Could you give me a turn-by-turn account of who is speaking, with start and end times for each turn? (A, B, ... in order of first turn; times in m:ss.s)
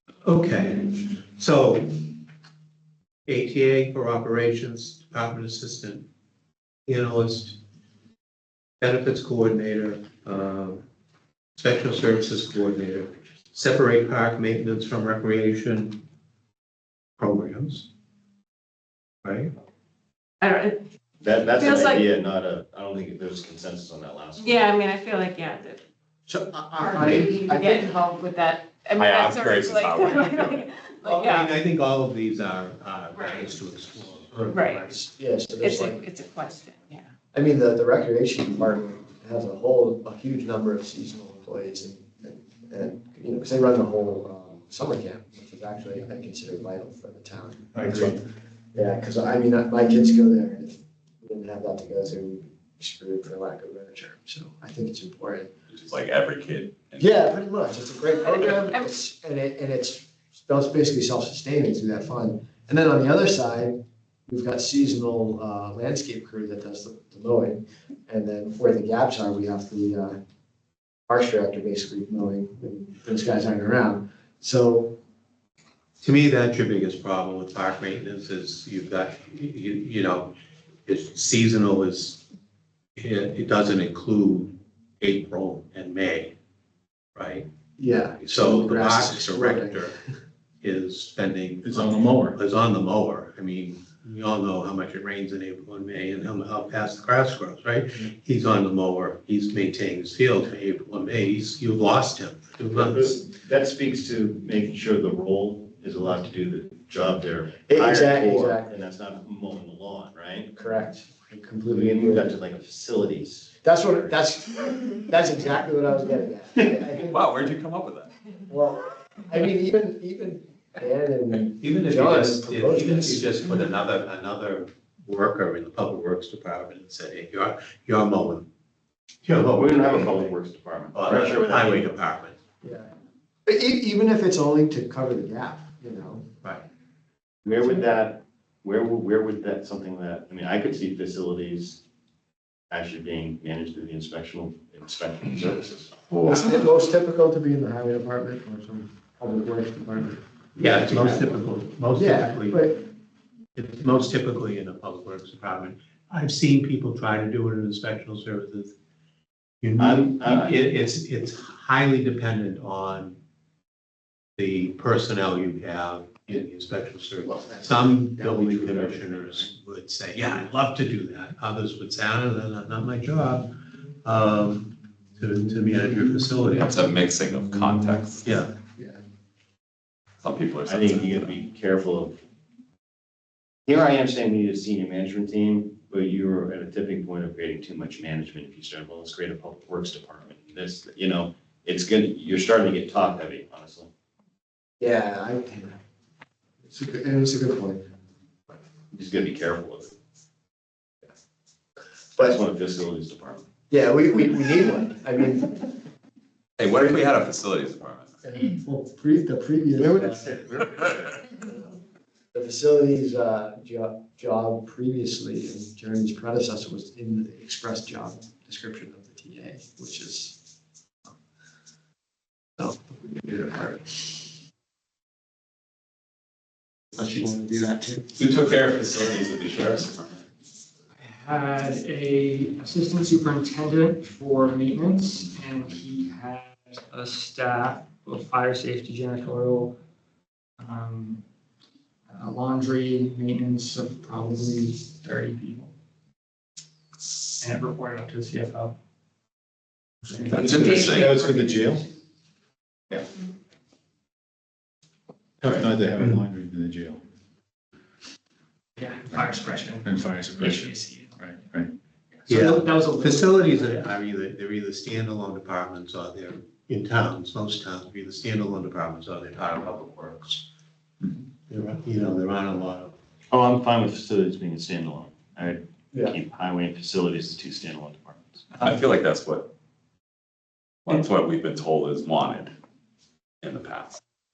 0:00.2-0:02.2 A
0:03.3-0:06.1 A
0:06.9-0:07.6 A
0:08.8-0:10.9 A
0:11.6-0:16.0 A
0:17.2-0:17.9 A
0:19.2-0:19.5 A
0:20.4-0:20.8 B
0:21.2-0:24.6 C
0:21.6-0:22.0 B
0:24.4-0:25.8 B
0:26.3-0:28.0 D
0:26.8-0:31.6 B
0:29.0-0:30.7 E
0:31.0-0:35.0 A
0:33.2-0:33.5 B
0:34.5-0:34.9 B
0:34.8-0:36.0 D
0:35.6-0:37.1 B
0:37.3-0:48.2 D
0:47.8-0:48.1 F
0:48.8-0:55.5 D
0:55.7-0:57.1 E
0:57.0-1:10.2 D
0:58.2-0:58.9 B
1:11.1-1:15.0 D
1:16.0-1:20.3 A
1:20.9-1:22.2 A
1:23.0-1:26.4 A
1:27.2-1:27.5 A
1:27.8-1:29.9 D
1:28.2-1:30.0 A
1:30.6-1:43.2 A
1:31.6-1:32.4 F
1:42.7-1:50.5 C
1:47.7-1:48.9 D
1:50.5-1:52.4 D
1:51.7-1:54.2 C
1:53.6-1:57.4 D
1:57.1-1:58.1 E
1:58.5-2:03.3 D
2:01.6-2:08.5 A
2:09.2-2:10.4 A
2:09.4-2:11.9 C
2:10.9-2:12.4 A
2:12.6-2:12.9 D
2:13.5-2:16.3 D
2:17.4-2:21.8 C
2:22.7-2:25.9 C
2:26.2-2:31.3 D
2:30.6-2:32.7 A
2:32.0-2:32.8 D
2:33.6-2:38.7 A
2:39.6-2:43.2 A
2:39.8-2:40.7 C
2:44.4-2:56.9 A
2:48.2-2:49.4 C
2:56.6-2:58.2 E
2:58.2-2:58.5 A
2:58.8-2:59.0 D
3:00.2-3:01.3 E
3:00.6-3:02.2 C
3:03.7-3:13.9 C
3:14.8-3:15.8 D
3:16.7-3:17.9 D
3:18.9-3:20.0 C
3:22.2-3:23.4 C
3:23.7-3:25.7 D
3:26.6-3:28.1 E
3:28.2-3:30.4 D
3:29.8-3:31.2 C
3:32.3-3:40.4 D
3:42.6-3:44.3 D
3:46.9-3:48.1 D
3:48.2-3:50.2 E
3:51.0-3:59.8 G
4:00.6-4:01.2 G
4:02.1-4:05.7 G
4:07.4-4:08.8 G
4:10.1-4:11.5 G
4:10.3-4:11.2 E
4:10.5-4:11.8 F
4:11.2-4:11.8 B
4:15.4-4:17.0 F
4:18.8-4:21.4 G
4:19.8-4:20.7 F
4:21.2-4:21.7 F
4:22.2-4:23.9 G
4:22.3-4:30.4 A
4:31.5-4:33.0 A
4:33.3-4:38.4 C
4:38.5-4:38.8 G
4:38.6-4:39.5 E
4:40.8-4:42.5 E
4:43.4-4:44.0 E